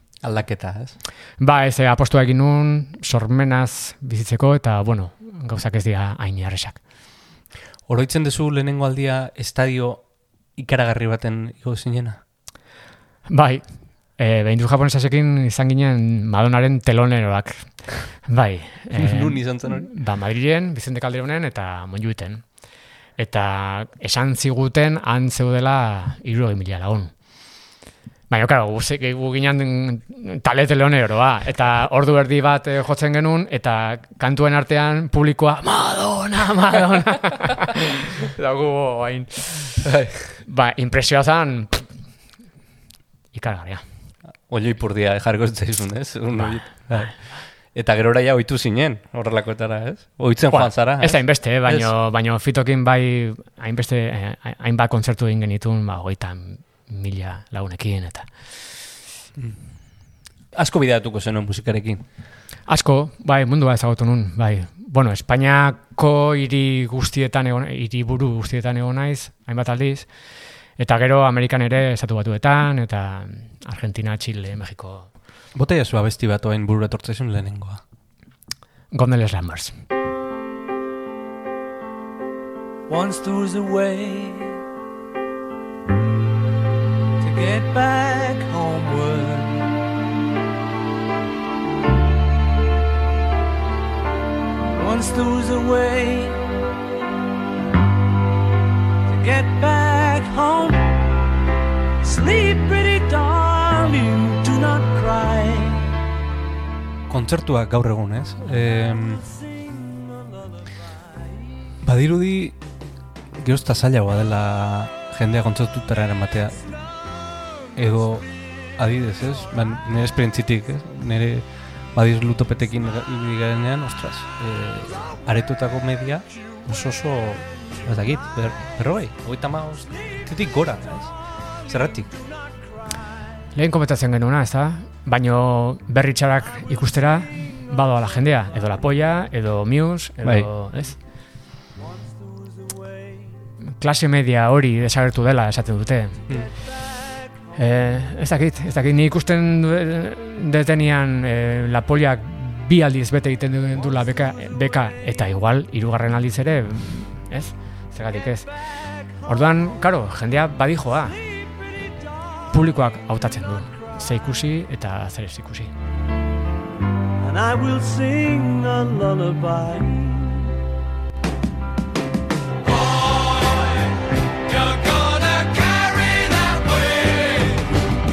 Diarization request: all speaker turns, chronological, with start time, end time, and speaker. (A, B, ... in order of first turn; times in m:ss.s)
0:00.2-0:01.0 A
0:01.4-0:06.8 B
0:07.9-0:12.2 A
0:13.3-0:13.6 B
0:14.1-0:22.5 B
0:19.0-0:19.9 A
0:23.2-0:27.1 B
0:28.3-0:39.9 B
0:39.8-0:40.4 A
0:40.4-0:41.9 B
0:43.3-0:43.8 B
0:44.5-0:51.9 A
0:46.4-0:47.2 B
0:50.5-0:58.3 B
1:00.5-1:02.0 A
1:02.7-1:10.1 B
1:10.8-1:15.1 B
1:15.5-1:17.8 A
1:18.9-1:19.8 B
1:22.9-1:24.6 C
1:27.2-1:29.7 C
1:34.8-1:36.4 C
1:39.1-1:41.0 C
1:42.0-1:46.0 C
1:47.1-1:49.2 A
1:51.8-1:52.6 A
1:53.4-1:56.6 A
1:57.8-2:11.1 A
2:11.6-2:12.1 A
2:13.5-2:21.0 B
2:20.2-2:20.5 A
2:23.8-2:26.3 B
2:27.6-2:38.5 B
2:39.2-2:41.2 B
2:42.5-2:45.7 B
2:47.2-2:50.5 C
2:54.5-2:57.4 C